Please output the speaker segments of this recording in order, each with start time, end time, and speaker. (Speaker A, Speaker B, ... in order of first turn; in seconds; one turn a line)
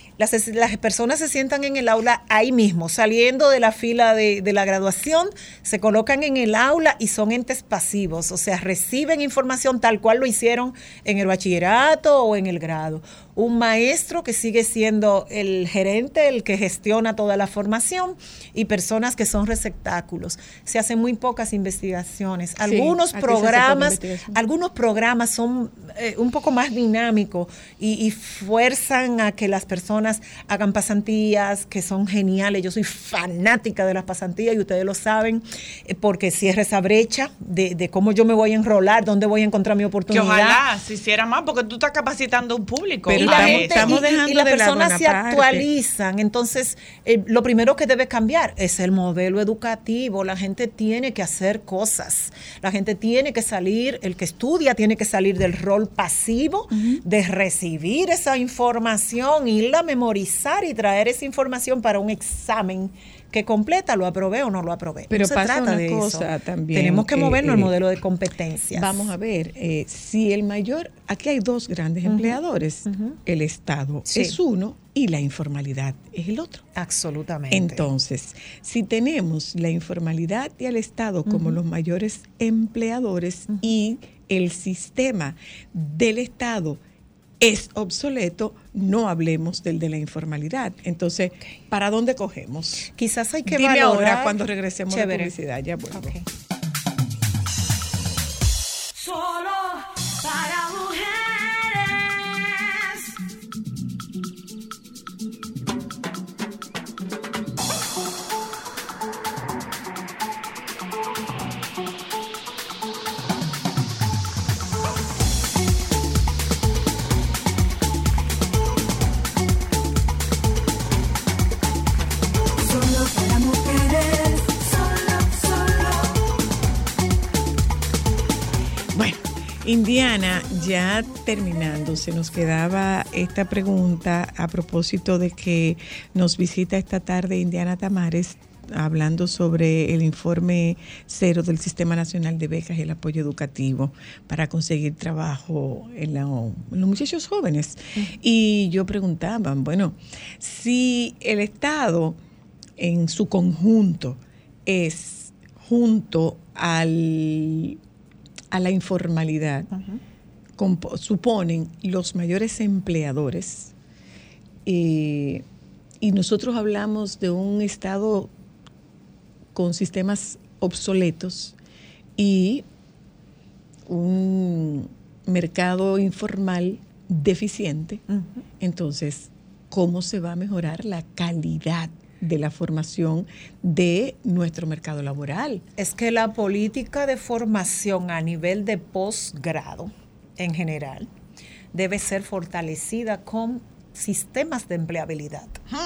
Speaker A: 0.2-40.6
Speaker B: 22.6-24.4
Speaker C: 40.1-44.0
Speaker B: 43.1-45.7
Speaker A: 43.1-69.1
Speaker B: 56.7-57.0
Speaker B: 65.1-67.7
Speaker B: 68.7-76.6
Speaker A: 72.1-73.2
Speaker A: 74.1-74.3
Speaker A: 76.8-77.9
Speaker B: 77.5-86.8
Speaker A: 81.3-81.6
Speaker B: 87.4-92.9
Speaker A: 93.0-94.4
Speaker B: 93.5-96.2
Speaker A: 94.9-95.3
Speaker A: 95.9-96.2
Speaker B: 128.9-152.2
Speaker B: 152.8-157.8
Speaker B: 158.5-159.7
Speaker B: 160.6-163.7
Speaker B: 164.7-165.4
Speaker B: 166.0-168.3
Speaker B: 169.5-171.5
Speaker B: 172.2-172.6
Speaker B: 173.9-178.0
Speaker B: 178.6-185.6
Speaker A: 185.8-191.1
Speaker A: 191.7-195.6